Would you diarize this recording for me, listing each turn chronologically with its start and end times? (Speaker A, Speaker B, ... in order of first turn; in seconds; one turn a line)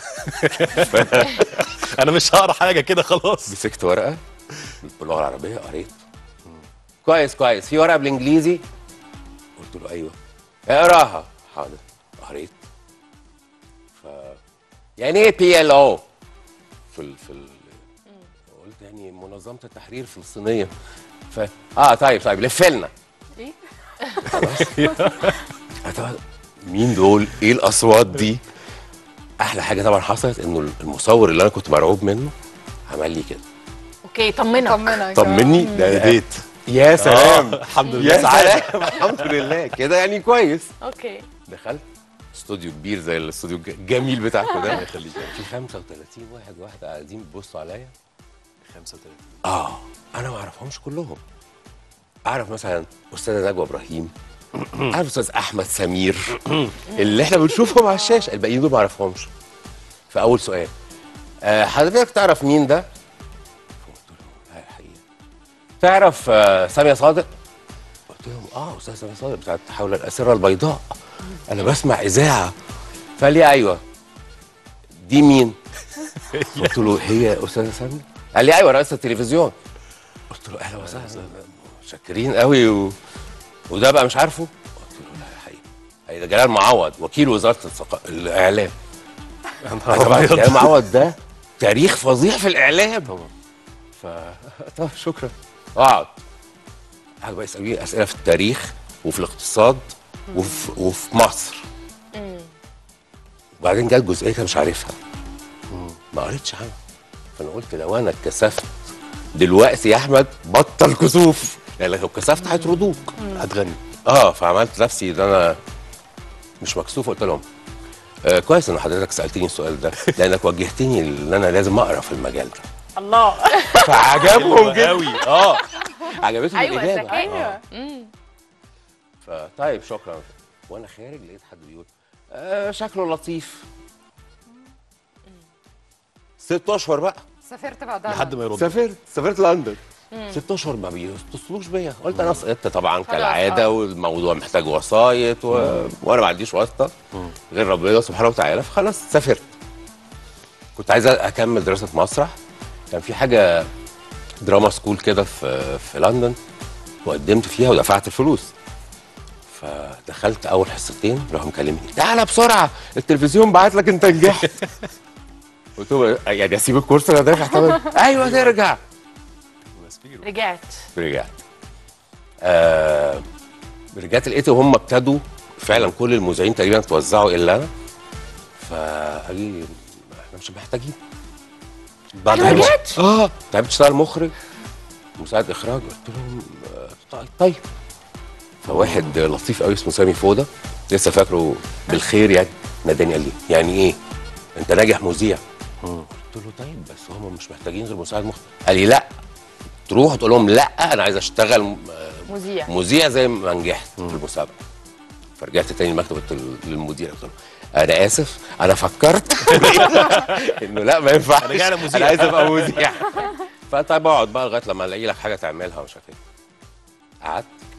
Speaker A: 0.1-3.6
Speaker B: 0.7-1.4
Speaker B: 3.5-4.2
Speaker B: 4.8-6.0
Speaker B: 7.0-8.6
Speaker B: 9.6-10.2
Speaker B: 10.7-12.6
Speaker B: 13.9-14.4
Speaker B: 15.0-16.0
Speaker B: 16.9-17.8
Speaker B: 18.5-20.7
Speaker B: 21.3-22.9
Speaker B: 24.2-25.1
Speaker A: 24.5-25.4
Speaker B: 25.8-28.4
Speaker B: 29.4-32.3
Speaker B: 32.9-33.4
Speaker C: 34.0-35.0
Speaker D: 34.6-35.6
Speaker B: 35.1-40.7
Speaker C: 35.6-36.0
Speaker A: 35.8-36.4
Speaker A: 37.0-39.4
Speaker C: 37.8-38.2
Speaker C: 40.8-41.3
Speaker B: 41.5-47.9
Speaker A: 44.6-45.4
Speaker A: 48.7-49.4
Speaker B: 49.4-51.2
Speaker B: 52.2-54.1
Speaker A: 54.6-54.9
Speaker B: 54.8-59.3
Speaker C: 56.9-57.2
Speaker B: 60.1-60.7
Speaker B: 61.4-62.9
Speaker B: 63.8-65.0
Speaker B: 65.8-67.3
Speaker B: 68.1-70.9
Speaker B: 71.5-72.5
Speaker B: 73.2-73.8
Speaker B: 75.0-75.6
Speaker A: 76.2-76.8
Speaker B: 76.5-79.5
Speaker B: 80.3-83.0
Speaker A: 80.8-81.3
Speaker B: 83.7-88.7
Speaker A: 89.6-90.8
Speaker B: 89.9-93.1
Speaker B: 94.0-96.2
Speaker B: 97.2-101.7
Speaker C: 102.1-102.5
Speaker B: 103.6-105.0
Speaker A: 105.7-106.0
Speaker B: 106.1-106.8
Speaker B: 107.4-108.8
Speaker B: 109.3-113.2
Speaker A: 113.3-113.8
Speaker B: 114.0-115.6
Speaker B: 116.6-117.4
Speaker B: 118.2-122.7
Speaker C: 123.0-124.2
Speaker D: 123.2-123.5
Speaker B: 123.7-127.3
Speaker A: 124.2-125.7
Speaker C: 126.5-128.1
Speaker D: 127.1-127.6
Speaker A: 127.3-127.6
Speaker B: 129.2-133.7
Speaker B: 136.4-137.2
Speaker D: 137.5-138.4
Speaker A: 138.1-138.7
Speaker B: 138.5-146.9
Speaker C: 140.1-140.4
Speaker A: 142.1-142.4
Speaker C: 143.1-143.7
Speaker A: 145.5-145.9
Speaker B: 147.5-149.5
Speaker B: 150.8-152.3
Speaker B: 152.9-153.7
Speaker B: 154.4-156.4
Speaker B: 157.0-158.5
Speaker B: 159.5-164.6
Speaker B: 165.8-168.8
Speaker A: 168.1-168.6
Speaker A: 169.7-170.3
Speaker C: 170.2-170.9
Speaker B: 171.0-171.4
Speaker B: 172.4-173.2
Speaker B: 173.9-177.7
Speaker B: 178.6-181.0
Speaker A: 182.2-182.8
Speaker C: 182.3-182.9
Speaker B: 182.3-184.3
Speaker B: 185.2-187.6
Speaker B: 188.6-194.0
Speaker A: 188.7-189.1
Speaker B: 194.6-195.4
Speaker B: 196.1-199.1
Speaker B: 199.9-204.6
Speaker C: 202.3-202.7
Speaker B: 205.4-216.2
Speaker A: 209.6-210.4
Speaker A: 211.4-212.8
Speaker B: 217.2-217.5